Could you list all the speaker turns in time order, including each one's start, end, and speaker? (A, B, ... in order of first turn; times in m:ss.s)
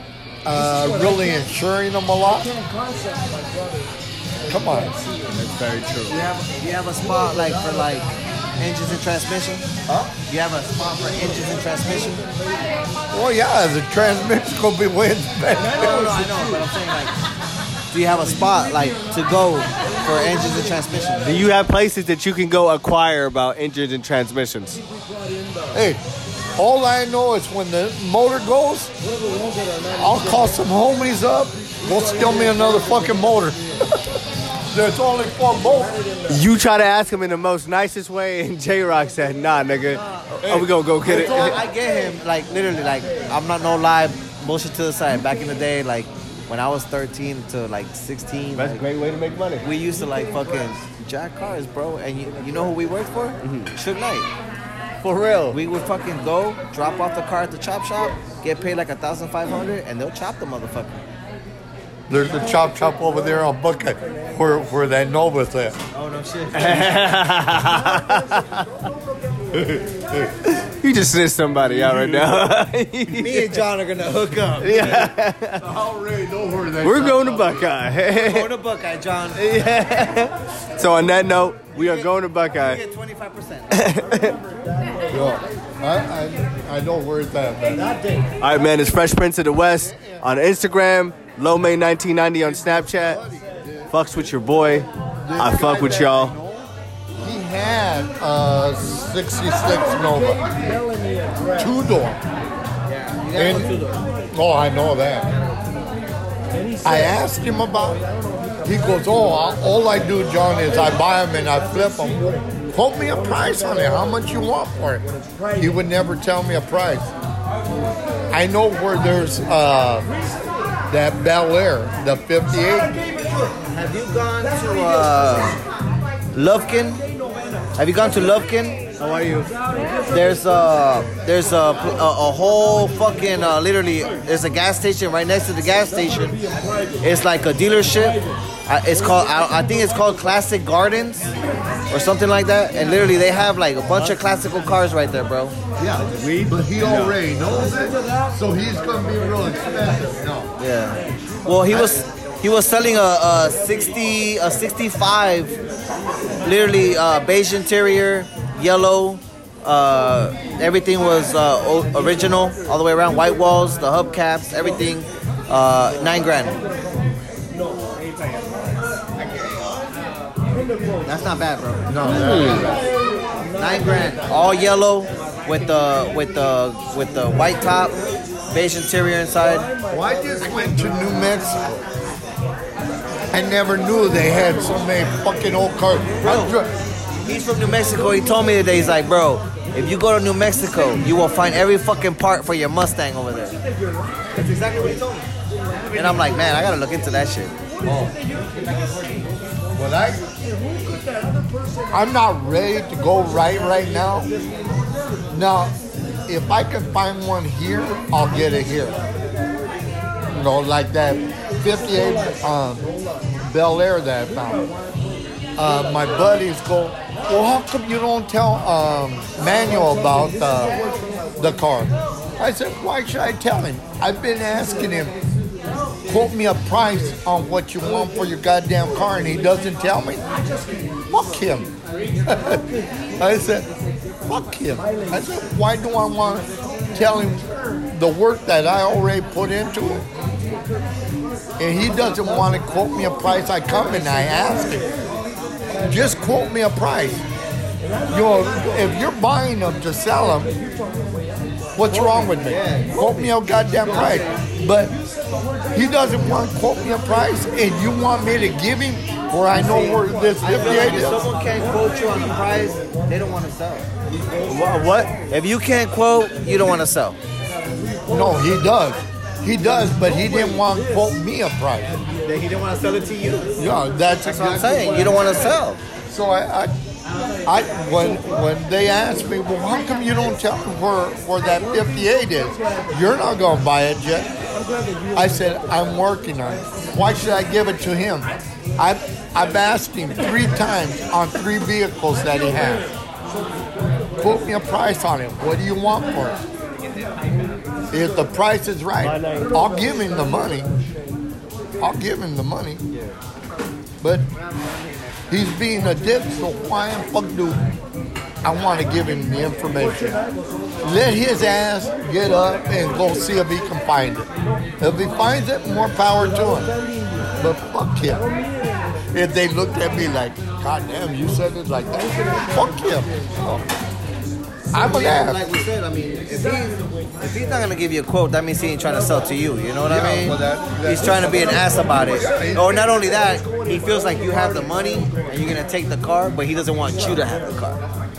0:00.4-0:02.5 A
0:04.5-0:05.0 A
0:05.3-0:06.2 B
0:06.1-0:12.2 C
0:13.1-0:16.2 A
0:15.8-0:17.2 C
0:17.9-0:21.5 C
0:21.2-0:24.8 B
0:25.7-0:26.0 A
0:26.6-0:28.9 A
0:30.0-0:33.8 A
0:34.7-0:36.0 A
0:36.3-0:41.6 B
0:40.4-0:41.6 A
0:41.0-0:48.8 C
0:48.6-0:49.6 B
0:49.6-0:54.3 C
0:53.4-0:53.7 B
0:55.0-0:55.6 B
0:55.5-1:01.0 C
1:02.1-1:05.8 A
1:05.9-1:07.1 C
1:06.5-1:08.7 B
1:09.5-1:13.6 B
1:11.8-1:12.3 A
1:13.1-1:15.1 C
1:14.6-1:15.6 B
1:15.6-1:17.7 A
1:16.8-1:18.5 B
1:18.1-1:19.5 C
1:19.4-1:22.8 B
1:21.7-1:24.0 C
1:23.7-1:24.4 B
1:25.1-1:28.0 A
1:28.4-1:33.2 B
1:29.8-1:30.3 A
1:32.4-1:33.9 A
1:33.9-1:36.3 B
1:35.2-1:36.7 A
1:37.2-1:40.8 A
1:41.5-1:42.2 A
1:42.8-1:44.0 C
1:43.3-1:43.7 A
1:44.3-1:45.3 A
1:46.8-1:48.0 A
1:48.6-1:55.0 A
1:55.6-1:57.1 A
1:58.3-2:00.1 A
2:00.9-2:02.9 A
2:03.7-2:05.6 C
2:06.3-2:07.0 C
2:07.8-2:08.8 C
2:09.0-2:09.5 B
2:10.1-2:16.4 C
2:17.0-2:21.3 C
2:21.9-2:25.6 C
2:25.8-2:30.5 A
2:26.1-2:27.2 B
2:30.6-2:35.6 C
2:31.7-2:31.9 A
2:36.4-2:46.6 C
2:51.0-2:52.8 C
2:51.9-2:52.8 A
2:52.2-2:52.7 B
2:53.6-2:58.0 C
2:58.5-2:59.7 C
2:59.9-3:01.8 A
3:03.3-3:06.7 A
3:06.2-3:06.6 C
3:07.2-3:13.6 C
3:14.3-3:15.3 C
3:15.9-3:17.5 C
3:17.8-3:19.2 A
3:19.7-3:20.3 A
3:21.9-3:24.3 A
3:25.3-3:25.7 A
3:26.3-3:29.0 A
3:30.3-3:34.6 A
3:35.6-3:40.8 A
3:41.4-3:45.1 A
3:46.0-3:50.2 A
3:51.1-3:51.7 A
3:52.2-3:53.7 A
3:54.2-4:00.1 A
4:01.6-4:04.9 A
4:05.8-4:07.3 A
4:08.1-4:10.6 A
4:11.8-4:15.0 A
4:12.4-4:13.2 C
4:13.8-4:14.4 C
4:15.7-4:21.2 A
4:20.4-4:23.9 C
4:24.5-4:25.1 B
4:25.3-4:27.2 C
4:28.1-4:31.9 A
4:32.2-4:33.5 C
4:33.6-4:35.5 A
4:34.2-4:35.8 C
4:36.1-4:36.7 A
4:37.4-4:44.3 A
4:45.1-4:52.9 A
4:54.2-4:56.4 A
4:57.9-5:00.7 A
4:59.0-4:59.5 B
5:01.8-5:02.8 A
5:02.9-5:03.2 B
5:04.0-5:04.3 A
5:05.3-5:07.6 A
5:08.4-5:10.2 A
5:10.8-5:14.3 A
5:14.8-5:16.7 A
5:17.4-5:18.2 A
5:19.1-5:23.6 A
5:24.7-5:25.4 A
5:24.7-5:37.8 C
5:29.9-5:33.0 A